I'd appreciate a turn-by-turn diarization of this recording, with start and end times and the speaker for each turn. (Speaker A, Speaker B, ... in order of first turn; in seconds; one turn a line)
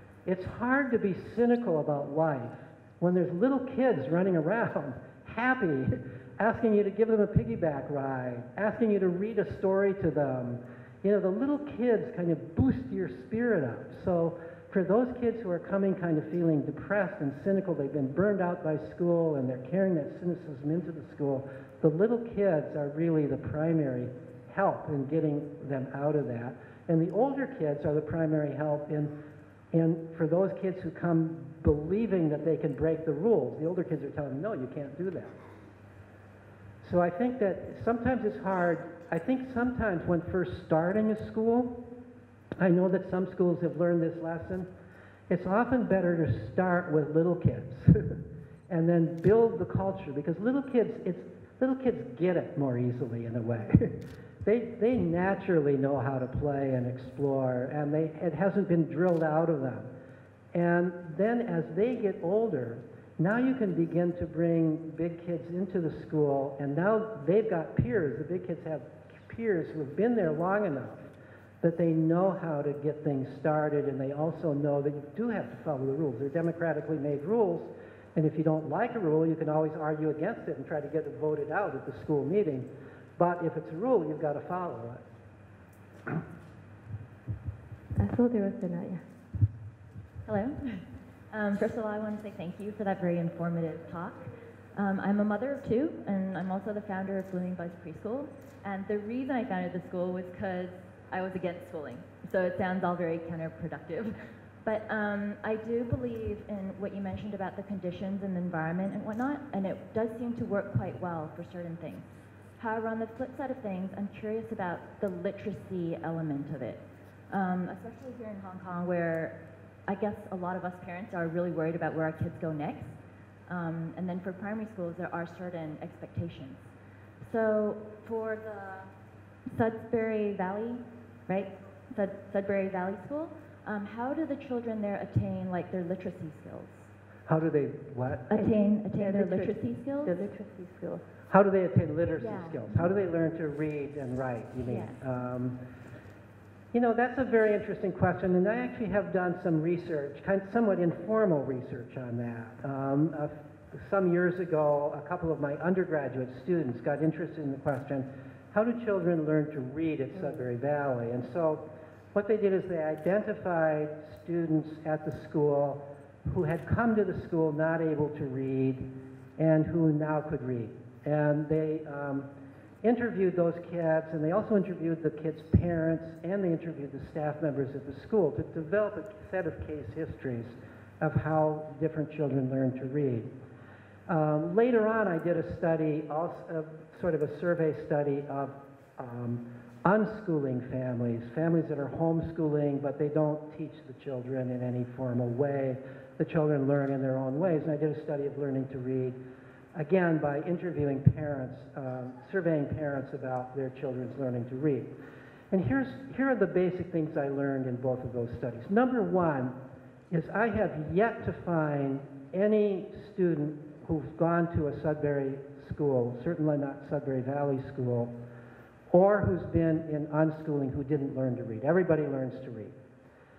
Speaker A: 0.3-29.1
Speaker A: 29.7-35.4
Speaker A: 36.8-41.8
Speaker A: 42.6-44.7
Speaker A: 45.3-48.2
Speaker A: 48.7-59.9
Speaker A: 60.5-71.1
Speaker A: 71.6-85.0
Speaker B: 88.0-89.0
Speaker C: 90.3-119.4
Speaker C: 119.9-123.0
Speaker C: 123.5-126.7
Speaker C: 127.2-128.9
Speaker C: 129.5-136.9
Speaker A: 137.3-138.3
Speaker C: 138.3-140.1
Speaker B: 138.3-141.0
Speaker A: 141.3-145.6
Speaker C: 142.2-142.8
Speaker C: 144.7-145.0
Speaker A: 146.7-168.8
Speaker A: 169.4-172.3
Speaker A: 172.8-183.3
Speaker A: 184.1-199.2
Speaker A: 199.8-204.9
Speaker A: 205.5-209.5
Speaker A: 210.1-218.1
Speaker A: 218.9-222.8